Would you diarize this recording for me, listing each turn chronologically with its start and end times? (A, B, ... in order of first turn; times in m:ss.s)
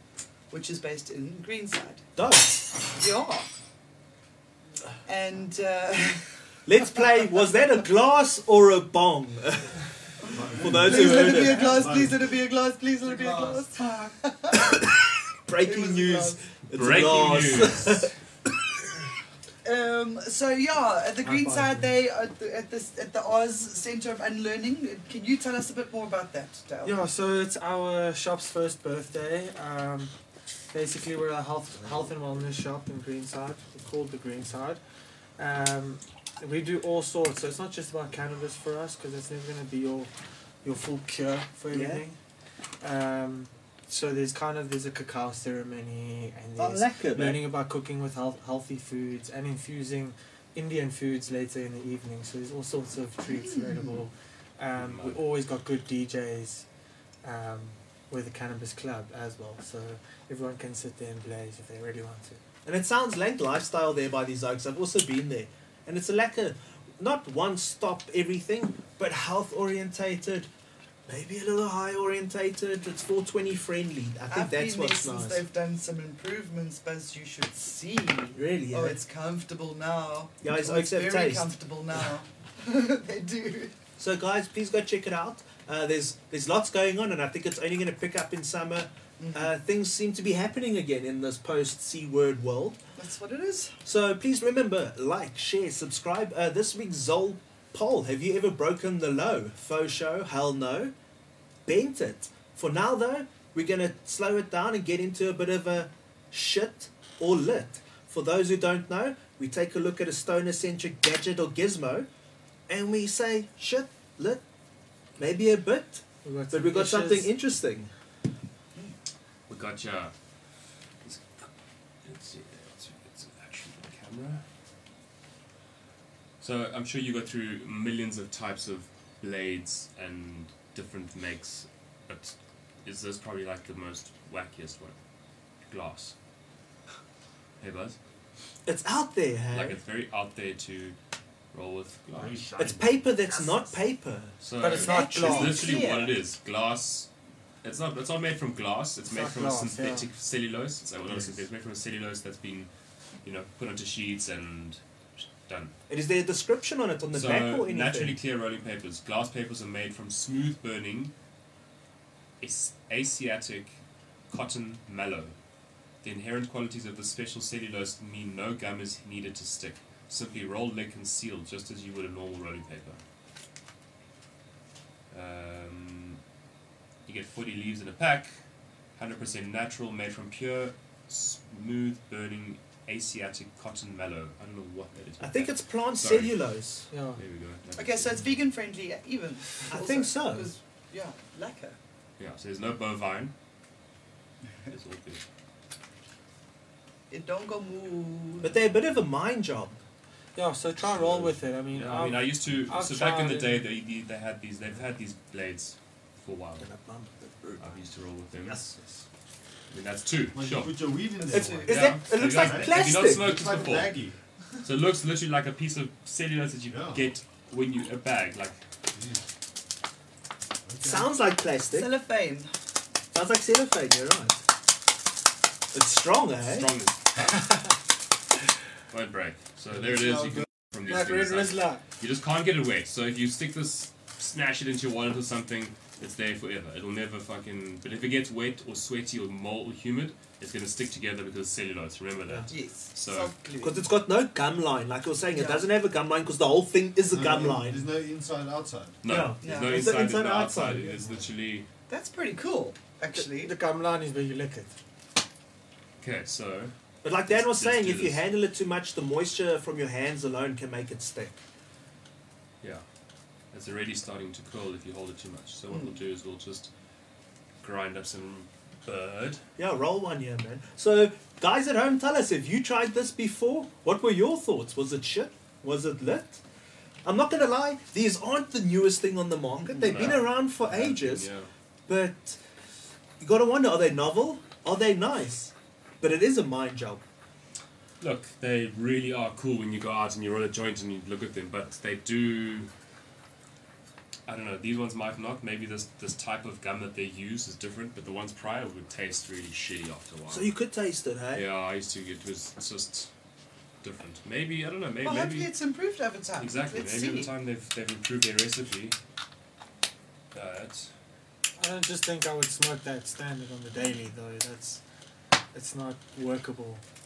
0:00.5-0:02.0 A
0:02.2-0:02.7 B
0:02.9-0:03.5 A
0:05.0-0:06.2 A
0:06.6-0:09.8 B
0:10.3-0:12.3 C
0:10.6-0:14.8 A
0:10.6-0:11.8 B
0:13.0-0:13.7 D
0:14.5-0:18.1 B
0:15.6-0:16.4 A
0:16.7-0:18.1 E
0:19.6-0:27.0 A
0:21.2-0:21.9 D
0:26.8-0:30.1 D
0:30.7-0:34.8 D
0:35.4-0:40.1 D
0:40.6-0:42.2 D
0:41.7-0:42.0 B
0:42.8-0:56.6 D
0:46.6-0:47.5 B
0:53.2-0:54.0 A
0:54.8-0:55.2 E
0:57.2-1:02.4 D
1:02.6-1:10.5 B
1:11.1-1:15.4 B
1:14.3-1:23.8 A
1:18.3-1:19.0 B
1:20.4-1:21.5 B
1:24.0-1:32.8 B
1:29.2-1:29.5 A
1:33.0-1:33.8 A
1:33.8-1:40.9 B
1:41.6-1:52.1 B
1:52.7-1:54.4 B
1:55.2-1:57.9 B
1:56.2-1:57.3 D
1:59.5-2:00.1 E
2:01.0-2:01.5 E
2:02.0-2:04.4 E
2:06.4-2:15.0 E
2:15.7-2:16.1 E
2:17.6-2:18.0 E
2:18.6-2:19.8 B
2:19.5-2:21.0 E
2:21.5-2:22.7 E
2:22.2-2:23.0 C
2:22.6-2:24.3 B
2:24.4-2:27.1 E
2:24.6-2:25.8 D
2:24.8-2:26.2 A
2:27.6-2:32.7 E
2:29.1-2:30.1 D
2:31.0-2:31.4 C
2:33.2-2:34.8 E
2:35.4-2:35.7 E
2:35.9-2:38.2 B
2:37.1-2:41.1 E
2:42.4-2:43.7 E
2:44.3-2:45.3 E
2:46.0-2:53.0 E
2:55.1-2:56.2 E
2:57.0-2:58.3 E
2:59.0-3:06.4 E
3:05.2-3:06.9 B
3:06.9-3:07.2 D
3:07.2-3:08.3 E
3:07.7-3:11.8 A
3:09.7-3:10.5 B
3:12.2-3:13.3 E
3:14.7-3:15.2 E
3:17.1-3:18.6 A
3:18.4-3:19.8 B
3:20.4-3:23.7 D
3:20.8-3:26.6 E
3:26.6-3:27.6 B
3:27.6-3:28.6 E
3:28.5-3:29.0 C
3:29.7-3:30.9 E
3:30.3-3:34.2 C
3:31.2-3:31.8 A
3:31.3-3:33.3 B
3:31.6-3:34.0 E
3:34.6-3:38.6 E
3:36.7-3:37.1 C
3:38.9-3:39.2 C
3:40.6-3:41.1 C
3:40.8-3:41.9 B
3:41.7-3:42.5 A
3:43.1-3:44.4 B
3:45.7-3:46.7 B
3:46.4-3:47.7 E
3:48.9-4:03.3 E
3:49.7-3:50.4 C
3:50.8-3:51.8 D
4:02.5-4:03.9 A
4:03.6-4:07.8 B
4:05.3-4:05.6 A
4:07.1-4:09.0 C
4:09.0-4:11.7 E
4:09.0-4:11.0 B
4:09.4-4:09.9 A
4:11.0-4:11.3 C
4:11.9-4:13.5 A
4:13.1-4:14.7 D
4:16.0-4:16.7 E
4:17.0-4:21.4 B
4:17.3-4:18.2 E
4:23.5-4:26.7 E
4:25.7-4:26.0 A
4:27.6-4:29.4 E
4:29.6-4:36.4 B
4:37.0-4:41.3 B
4:39.7-4:41.5 E
4:41.9-4:42.4 B
4:43.2-4:47.0 B
4:48.0-4:52.7 E
4:54.3-5:00.5 E
5:00.3-5:01.5 B
5:01.3-5:03.1 E
5:03.8-5:05.5 E
5:05.0-5:07.3 A
5:06.4-5:09.0 E
5:10.3-5:10.9 E
5:11.6-5:14.8 D
5:15.5-5:16.8 D